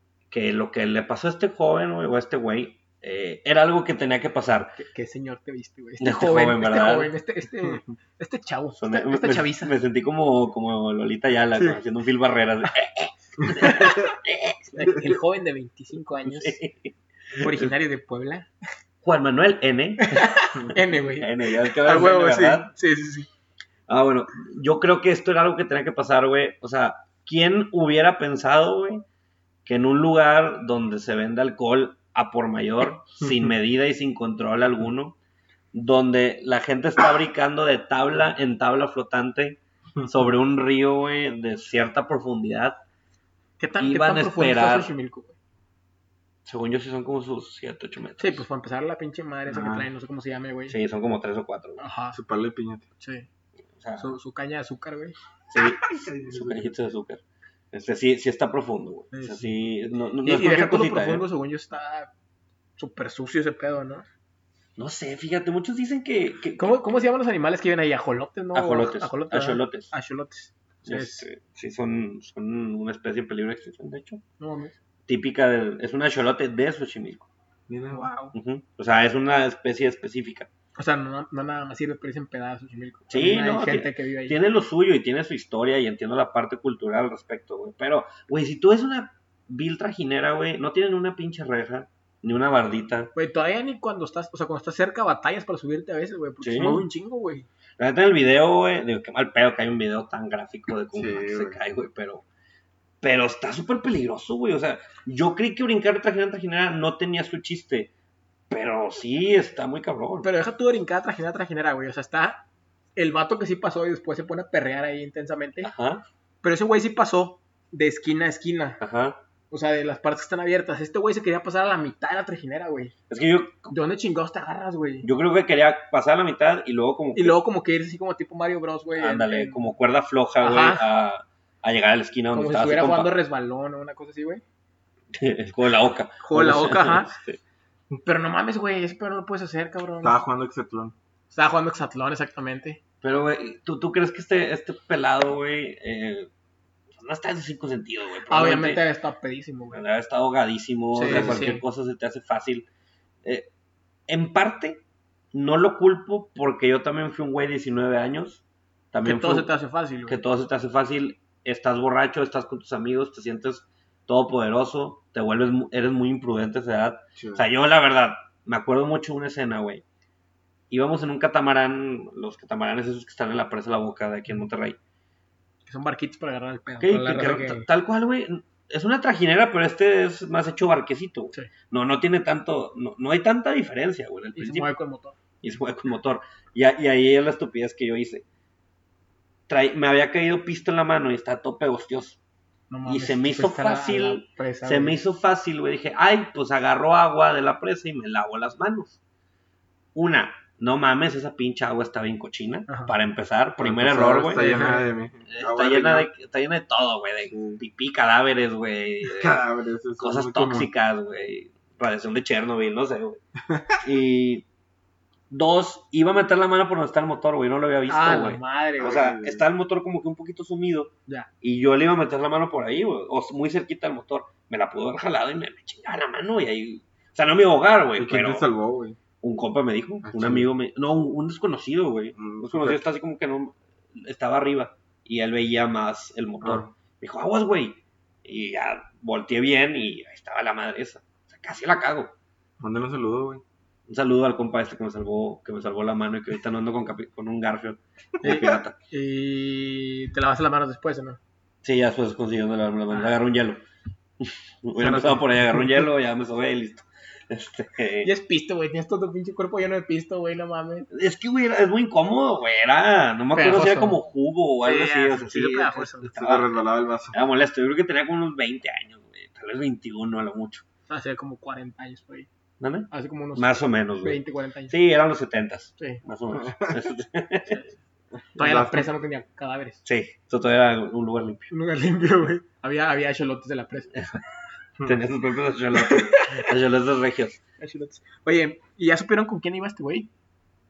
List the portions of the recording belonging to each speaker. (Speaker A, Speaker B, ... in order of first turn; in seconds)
Speaker A: 0.3-4.8, 6.0-7.1, 8.8-14.7, 16.2-17.7, 19.0-22.7, 23.9-29.0, 29.7-35.2, 35.7-42.8, 43.8-44.9, 46.5-48.4, 50.7-51.8, 53.8-54.1, 55.5-61.3, 64.8-66.8, 68.5-69.9, 70.9-74.2, 75.1-77.3, 78.3-80.5, 83.1-93.1, 96.4-96.8, 97.8-102.2, 103.0-107.9, 108.5-110.3, 115.6-116.0, 118.8-119.2, 123.1-123.7, 125.0-127.4, 128.9-133.1, 135.1-137.4, 143.0-146.3, 147.0-148.8, 149.7-152.7, 154.1-154.8, 155.3-159.5, 160.1-169.8, 170.7-174.8, 176.8-184.7, 185.4-188.2, 189.5-192.2, 192.9-199.0, 199.9-204.5, 205.3-209.4, 210.0-213.2, 213.8-214.5, 215.3-228.5, 229.2-242.1, 243.9-248.8, 251.6-253.6, 254.2-258.1, 260.9-270.6, 272.6-277.7, 279.9-281.5, 283.9-284.2, 284.8-287.4
Speaker B: 4.8-9.7, 14.7-16.6, 17.4-18.5, 20.0-23.3, 43.6-45.3, 48.2-50.8, 51.8-52.2, 53.0-53.3, 54.0-55.2, 59.1-59.5, 60.2-62.1, 62.8-64.1, 66.6-71.3, 74.4-74.7, 77.9-78.3, 80.8-84.4, 93.2-97.5, 110.2-112.4, 113.0-115.7, 116.4-118.8, 119.5-122.9, 123.7-125.1, 127.2-129.6, 130.4-130.8, 132.3-134.4, 136.2-137.2, 138.0-140.2, 141.3-142.8, 148.3-149.8, 150.9-151.6, 159.0-160.2, 175.7-177.7, 184.4-185.2, 192.7-195.0, 202.7-202.9, 204.3-204.8, 217.9-219.0, 248.2-251.2, 254.8-255.8, 258.0-260.9, 263.4-264.0, 264.6-266.1, 270.9-272.3, 272.9-274.8, 278.4-279.8, 281.5-283.9, 285.7-286.5, 287.6-290.1
Speaker C: 49.5-49.9, 52.1-52.9, 56.0-56.6, 77.7-78.1, 101.0-101.6, 140.0-140.9, 151.1-151.4, 167.2-167.5, 203.6-206.1, 207.3-207.6, 209.1-210.7, 213.5-213.8, 218.8-219.4, 228.0-229.0, 230.0-230.5, 232.2-232.8, 236.4-236.7, 242.6-243.4, 266.2-267.2, 276.4-276.7, 278.1-278.9